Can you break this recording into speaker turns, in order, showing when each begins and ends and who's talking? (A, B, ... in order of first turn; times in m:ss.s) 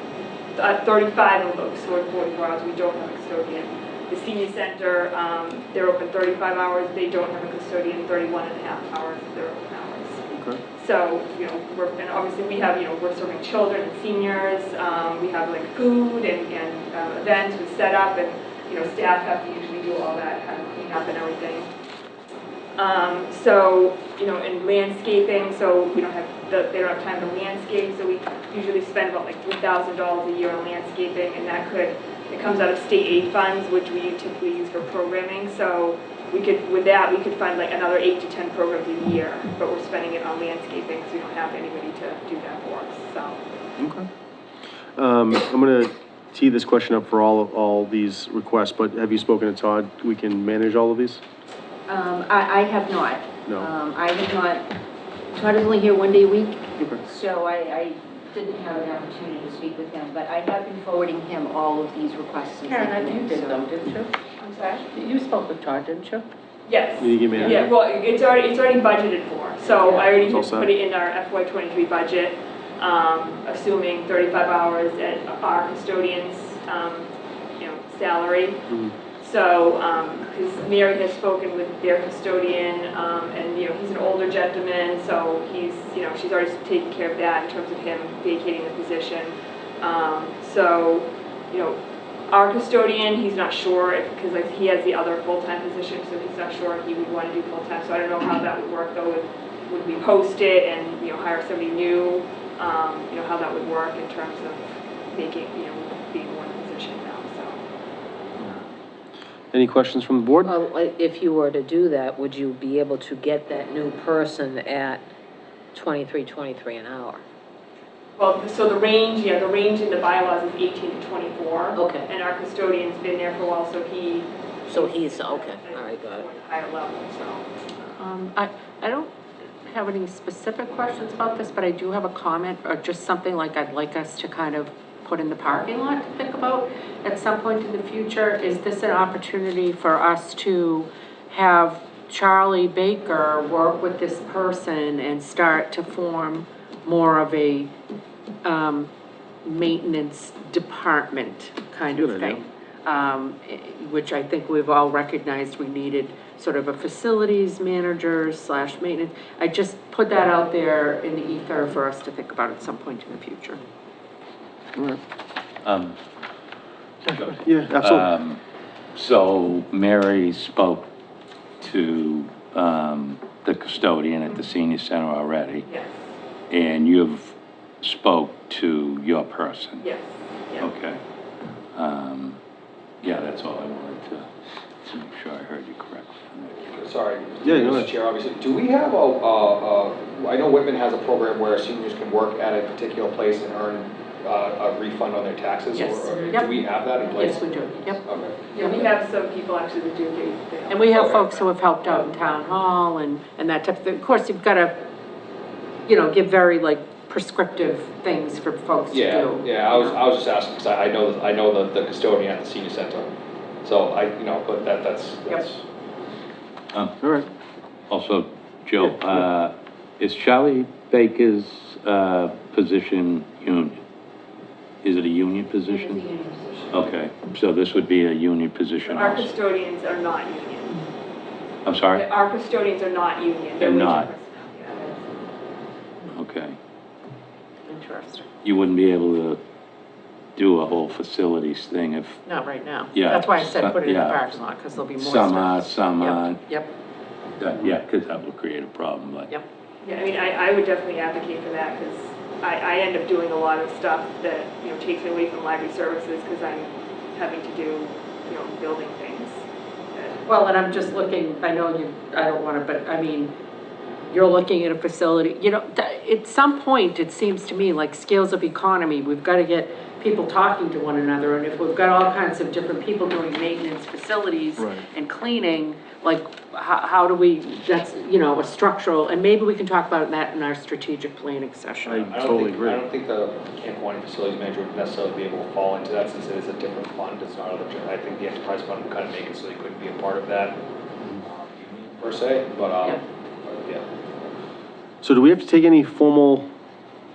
0:00.5-0:21.7 A
0:10.3-0:10.6 B
0:22.8-0:43.5 A
0:43.8-0:44.1 B
0:44.9-0:51.2 B
0:51.9-0:54.6 C
0:53.4-0:53.7 B
0:55.3-1:03.6 C
0:56.8-0:57.0 B
1:02.7-1:04.1 D
1:04.4-1:04.8 A
1:04.9-1:06.2 D
1:06.6-1:47.6 A
1:07.0-1:07.7 B
1:07.4-1:07.7 D
1:09.8-1:10.2 C
1:10.1-1:10.7 B
1:18.7-1:18.9 B
1:49.5-1:50.6 B
1:50.4-1:55.1 E
1:55.7-1:57.2 E
1:58.2-2:07.5 A
2:01.8-2:02.1 E
2:04.7-2:06.3 E
2:07.8-2:27.7 D
2:28.4-2:28.9 D
2:29.4-2:43.6 D
2:31.9-2:32.4 B
2:44.8-2:45.0 B
2:45.6-2:46.0 F
2:47.0-2:48.1 B
2:47.1-2:48.4 F
2:48.9-2:50.9 F
2:51.6-2:55.7 F
2:55.6-2:56.0 A
2:56.5-2:59.9 F
2:59.8-3:00.7 A
3:00.6-3:01.0 F
3:01.7-3:02.4 F
3:03.0-3:04.3 F
3:04.8-3:06.8 F
3:06.7-3:18.9 G
3:07.4-3:07.9 B
3:15.7-3:18.0 D
3:18.5-3:21.4 A
3:20.7-3:24.8 D
3:20.9-3:21.2 G
3:25.9-3:30.0 D
3:28.9-3:33.1 G
3:33.6-3:35.6 G
3:36.7-3:37.0 F
3:37.0-3:37.3 B
3:37.9-3:43.8 F
3:44.8-3:46.0 F
3:45.7-3:46.8 C
3:46.7-3:49.3 F
3:48.8-3:50.8 A
3:51.6-3:52.1 F
3:51.9-3:55.2 A
3:53.6-3:54.1 F
3:56.1-3:56.6 F
3:57.7-3:58.3 D
3:58.4-3:59.4 F
4:00.4-4:02.2 F
4:02.2-4:06.7 D
4:02.9-4:04.3 F
4:05.0-4:06.4 F
4:07.4-4:09.3 F
4:09.8-4:20.2 A
4:20.2-4:23.3 D
4:24.1-4:42.1 D
4:34.6-4:34.9 B
4:41.8-4:50.6 G
4:41.9-4:42.8 B
4:51.2-4:53.8 G
4:55.0-4:56.5 B